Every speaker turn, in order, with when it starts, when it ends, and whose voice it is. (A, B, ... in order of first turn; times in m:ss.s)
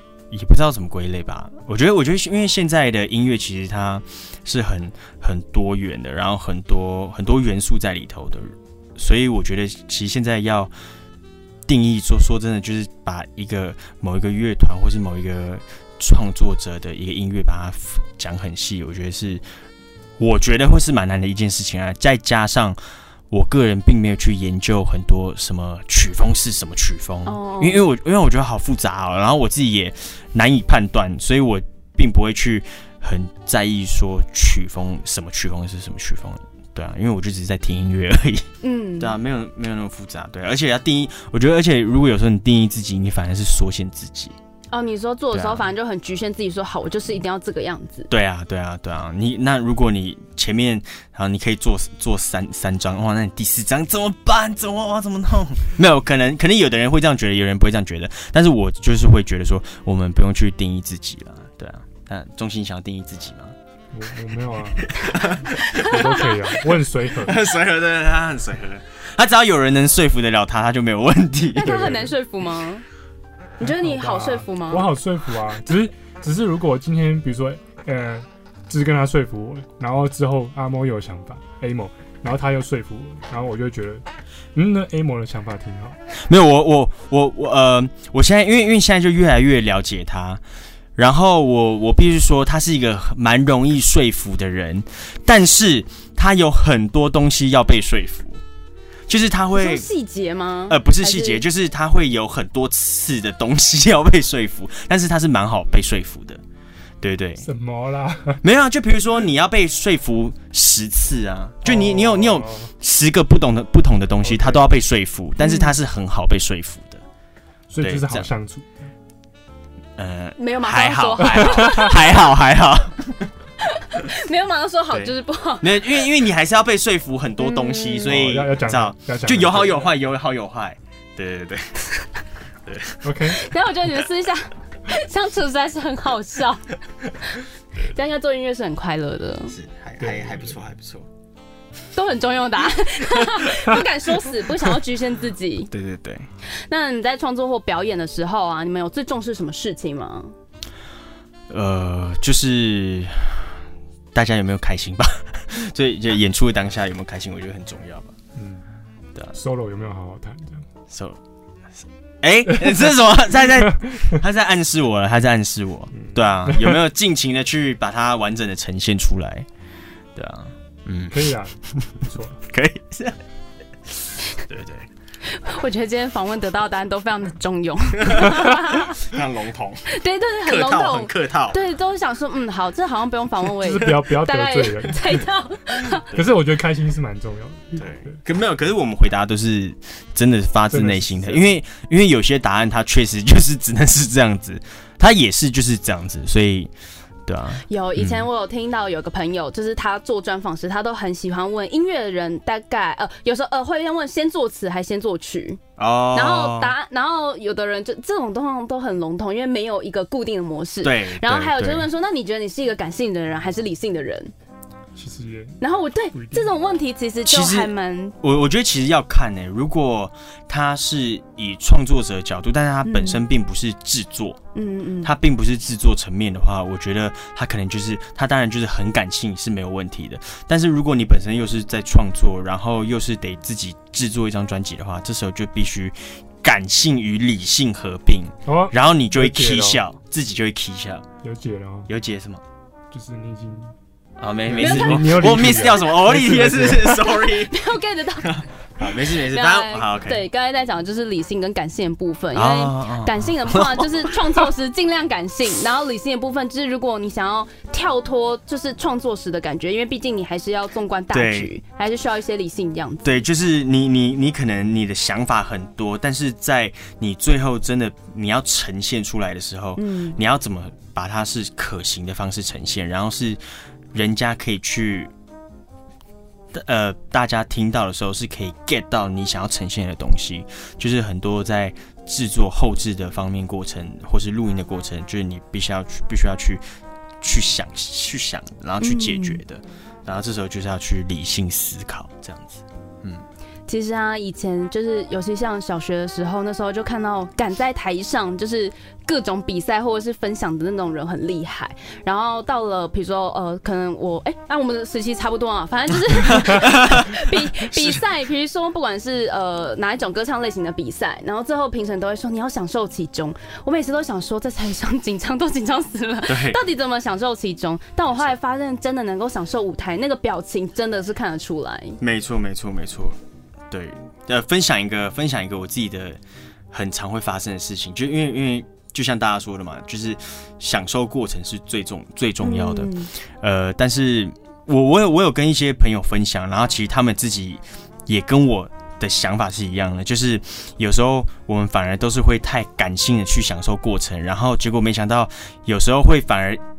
0:00.3-0:10.7 A
0:11.7-0:19.4 A
0:20.2-0:22.8 A
0:23.3-0:44.3 A
0:27.2-0:27.8 B
0:38.6-0:39.1 B
0:44.7-0:48.1 B
0:45.3-0:45.7 A
0:48.1-1:03.5 A
1:03.9-1:07.4 C
1:04.8-1:06.3 A
1:07.2-1:12.0 A
1:11.5-1:12.8 B
1:11.6-1:12.2 C
1:13.6-1:14.9 B
1:13.6-1:26.0 C
1:26.2-1:30.4 A
1:31.0-1:38.4 A
1:39.1-1:39.9 A
1:39.6-1:41.4 B
1:40.7-1:46.4 A
1:47.0-1:47.5 A
1:47.4-1:48.4 C
1:48.4-1:57.0 A
1:51.6-1:52.7 C
1:54.2-1:54.7 C
1:55.4-1:55.7 B
1:57.7-1:58.9 C
1:57.8-1:58.3 A
2:00.0-2:03.3 A
2:00.4-2:02.3 B
2:01.3-2:01.9 C
2:03.6-2:06.1 B
2:04.9-2:11.8 A
2:07.4-2:08.1 B
2:08.0-2:09.9 C
2:12.6-2:13.0 A
2:13.0-2:13.4 C
2:13.3-2:16.7 B
2:17.9-2:19.5 B
2:19.5-2:21.1 A
2:20.0-2:20.6 C
2:21.9-2:25.7 B
2:25.7-2:26.3 A
2:26.7-2:30.3 B
2:31.5-2:33.5 A
2:34.1-2:38.1 A
2:38.3-2:38.6 C
2:39.3-2:40.6 C
2:40.9-2:41.2 A
2:42.2-2:49.5 A
2:43.7-2:44.2 C
2:45.9-2:46.8 C
2:50.2-2:53.2 A
2:51.1-2:52.4 C
2:54.4-2:54.9 A
2:55.3-2:59.0 B
2:58.0-2:59.9 A
2:59.9-3:06.1 B
3:00.4-3:01.6 A
3:03.6-3:05.2 C
3:06.1-3:08.2 C
3:07.7-3:16.7 A
3:10.7-3:11.6 C
3:17.3-3:18.2 A
3:17.7-3:25.6 B
3:25.8-3:26.7 A
3:26.1-3:34.3 B
3:30.8-3:31.9 A
3:35.0-3:35.6 C
3:35.6-3:38.2 B
3:36.1-3:36.5 C
3:37.2-3:44.4 A
3:42.8-3:43.2 B
3:44.5-3:45.1 B
3:45.0-4:01.0 A
3:58.4-3:59.8 C
4:01.2-4:01.9 C
4:01.9-4:02.4 A
4:02.9-4:03.7 C
4:04.2-4:07.6 A
4:04.5-4:07.1 C
4:04.6-4:05.1 B
4:07.2-4:23.2 B
4:08.2-4:10.2 A
4:12.3-4:14.1 A
4:21.1-4:21.5 A
4:23.0-4:33.4 A
4:29.8-4:30.2 B
4:33.9-4:35.1 A
4:36.5-4:46.6 A
4:47.2-4:53.2 A
4:48.8-4:49.4 B
4:53.7-5:22.0 B
5:06.2-5:08.0 A
5:16.3-5:16.6 A
5:22.0-5:23.2 A
5:23.7-5:26.2 A
5:26.7-5:46.6 A
5:32.4-5:33.1 B